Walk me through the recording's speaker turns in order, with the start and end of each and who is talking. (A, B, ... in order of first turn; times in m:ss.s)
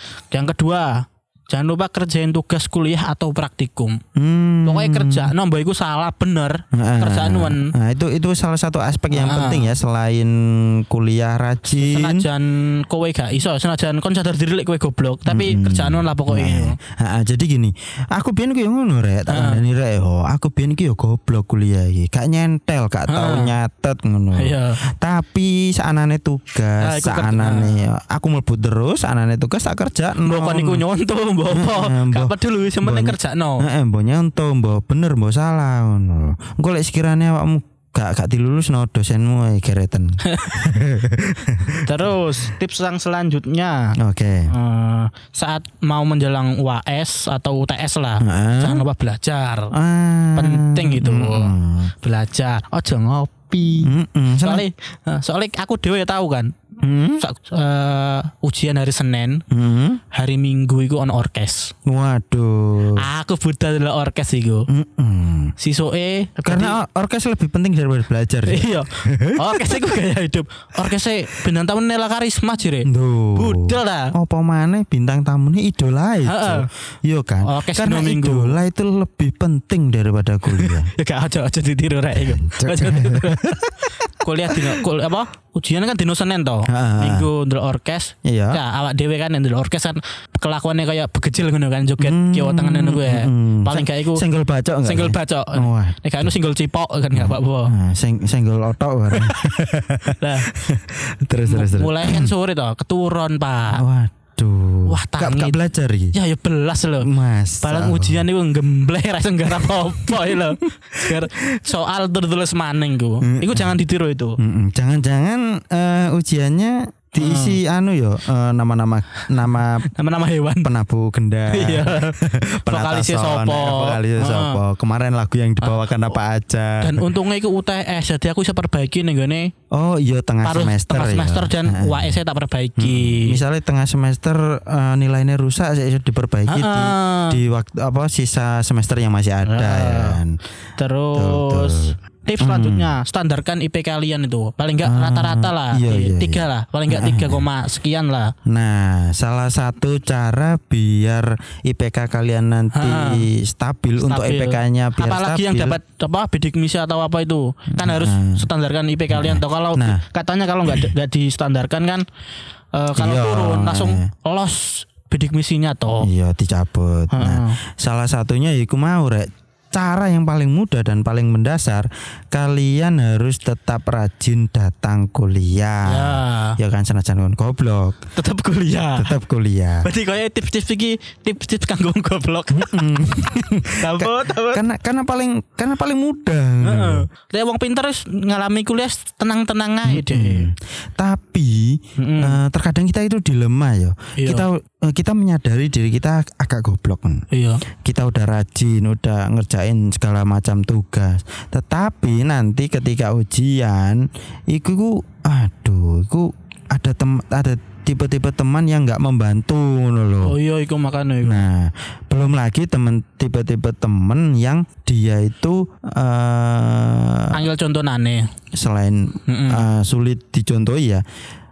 0:00.3-0:04.0 A
0:04.2-0:05.3 B
0:04.6-0:07.7 A
0:06.7-0:12.2 B
0:09.1-0:09.8 A
0:11.8-0:16.8 A
0:15.3-0:30.8 B
0:19.3-0:19.6 A
0:23.1-0:23.6 A
0:24.4-0:24.8 A
0:26.8-0:27.8 A
0:30.2-0:33.7 A
0:31.5-0:42.1 B
0:40.3-0:40.7 A
0:41.8-0:44.0 A
0:44.0-0:44.5 B
0:44.5-0:49.7 A
0:48.2-0:48.8 B
0:49.7-0:51.9 B
0:50.3-0:56.5 A
0:53.8-0:54.7 B
0:56.8-0:57.2 B
0:57.2-0:59.4 A
0:59.5-1:00.0 B
1:00.1-1:01.7 A
1:01.8-1:03.0 B
1:03.0-1:04.7 A
1:04.7-1:05.5 B
1:05.6-1:06.8 A
1:06.4-1:10.0 B
1:08.5-1:14.1 A
1:12.8-1:20.9 B
1:16.2-1:16.7 A
1:17.4-1:18.6 A
1:20.5-1:34.2 A
1:22.2-1:24.8 B
1:26.7-1:27.3 B
1:28.2-1:28.6 B
1:32.0-1:36.4 B
1:34.8-1:37.7 A
1:37.1-1:42.3 B
1:39.1-1:39.6 A
1:40.1-1:40.5 A
1:41.4-1:43.8 A
1:43.7-1:46.2 B
1:44.9-1:45.6 A
1:46.1-1:47.1 A
1:47.0-1:48.3 B
1:47.6-1:54.4 A
1:50.0-1:51.3 B
1:53.2-1:53.8 B
1:54.4-1:59.9 B
1:57.2-1:57.6 A
1:59.9-2:00.7 A
2:00.6-2:07.1 B
2:01.5-2:04.6 A
2:05.6-2:06.0 A
2:06.8-2:09.5 A
2:09.7-2:12.2 B
2:10.4-2:13.4 A
2:12.8-2:20.4 B
2:16.5-2:17.4 A
2:19.4-2:20.2 A
2:20.8-2:28.3 A
2:21.2-2:22.9 B
2:24.8-2:27.4 B
2:28.5-2:35.8 B
2:32.7-2:33.3 A
2:34.0-2:42.0 A
2:37.7-2:38.5 B
2:39.1-2:40.0 B
2:42.7-2:46.1 A
2:43.0-2:44.1 B
2:46.0-2:58.0 B
2:47.1-2:47.6 A
2:55.8-2:56.6 A
2:58.2-2:59.1 A
2:59.0-2:59.9 B
2:59.8-3:02.9 A
3:02.5-3:07.1 B
3:03.8-3:04.6 A
3:06.6-3:10.5 A
3:09.8-3:17.2 B
3:12.0-3:12.4 A
3:14.2-3:14.4 A
3:17.3-3:17.6 A
3:17.8-3:30.4 B
3:30.2-3:31.4 A
3:31.2-3:37.4 B
3:37.3-3:38.2 A
3:38.6-3:41.0 B
3:39.3-3:39.7 A